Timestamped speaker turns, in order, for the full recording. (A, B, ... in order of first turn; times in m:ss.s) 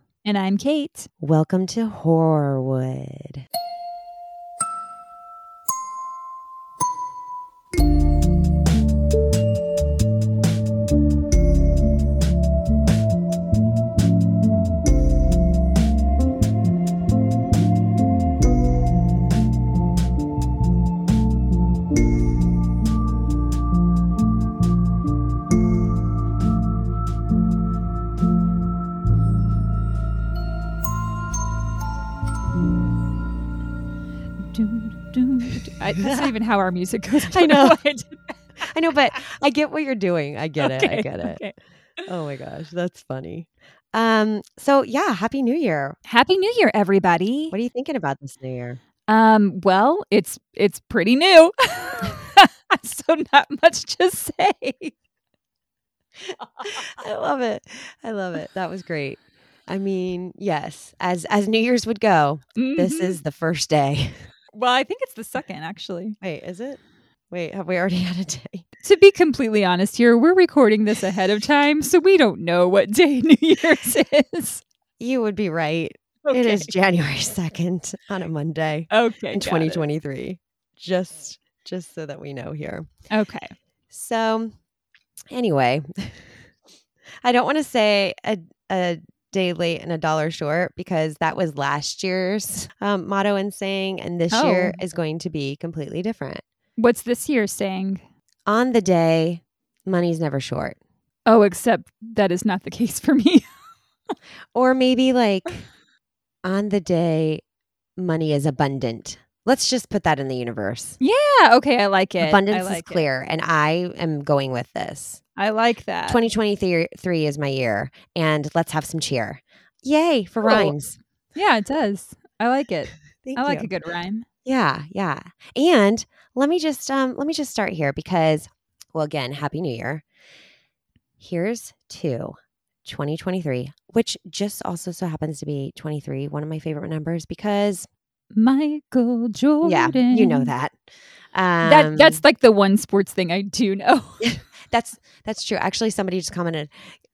0:00.2-0:01.1 A
0:01.2-0:03.4 B
0:34.4-0:38.4 A
0:37.2-0:37.8 B
0:38.6-0:41.4 B
0:40.6-0:42.1 A
0:42.0-0:46.0 B
0:46.1-0:47.5 A
0:47.5-0:48.8 B
0:49.1-0:54.9 A
0:56.6-1:04.2 B
1:02.6-1:03.2 A
1:04.5-1:06.2 A
1:06.2-1:06.8 B
1:07.3-1:08.6 B
1:08.8-1:14.6 A
1:15.0-1:22.9 B
1:16.2-1:16.7 A
1:18.9-1:19.8 A
1:23.1-1:23.5 A
1:23.9-1:24.5 B
1:25.3-1:26.3 B
1:27.2-1:36.4 B
1:34.3-1:34.8 A
1:36.8-1:38.0 A
1:38.4-1:40.8 B
1:41.2-1:43.4 A
1:44.5-1:45.6 B
1:46.4-1:47.4 B
1:48.0-1:51.0 B
1:51.0-1:53.0 A
1:52.2-1:55.2 B
1:55.4-1:56.2 A
1:56.0-2:01.0 B
2:00.4-2:00.7 A
2:01.3-2:04.3 A
2:03.2-2:03.7 B
2:04.4-2:10.0 B
2:11.2-2:17.9 B
2:18.3-2:20.5 A
2:19.6-2:20.8 B
2:21.3-2:22.2 B
2:21.6-2:24.2 A
2:24.2-2:26.7 B